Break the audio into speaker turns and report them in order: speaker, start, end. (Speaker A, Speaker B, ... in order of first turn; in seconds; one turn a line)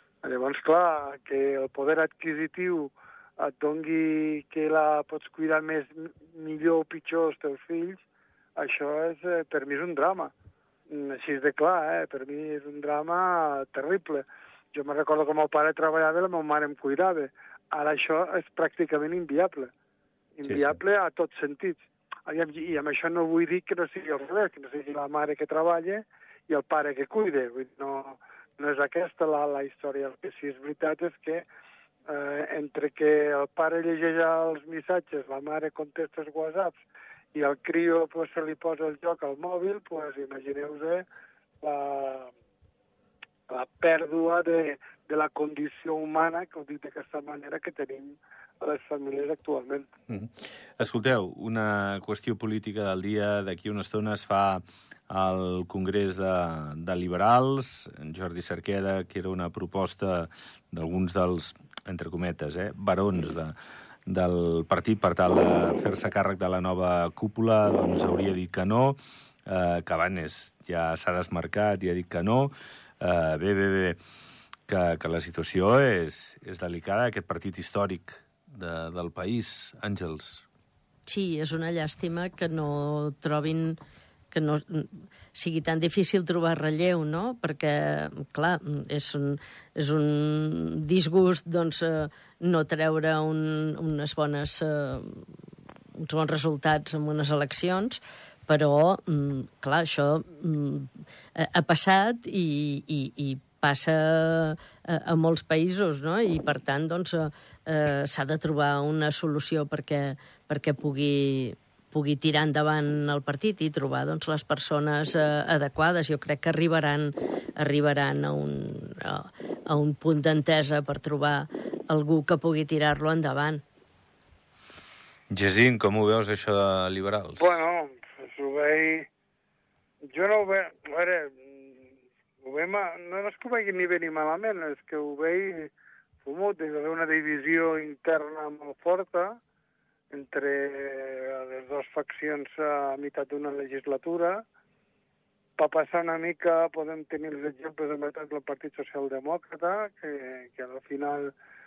Speaker A: 0.2-8.0
Speaker A: 8.6-10.3
Speaker A: 10.9-19.7
Speaker A: 20.4-31.4
Speaker B: 20.5-20.8
Speaker A: 32.1-36.8
Speaker A: 37.3-41.0
Speaker A: 41.6-42.3
Speaker A: 43.5-49.9
Speaker B: 50.1-63.5
Speaker B: 64.1-74.0
Speaker B: 74.7-80.5
Speaker C: 81.1-83.8
Speaker C: 84.3-95.3
Speaker C: 96.0-123.6
Speaker B: 125.3-127.6
Speaker A: 127.4-129.1
Speaker A: 130.1-131.9
Speaker A: 132.4-135.7
Speaker A: 136.2-139.4
Speaker A: 140.1-144.4
Speaker A: 145.6-151.3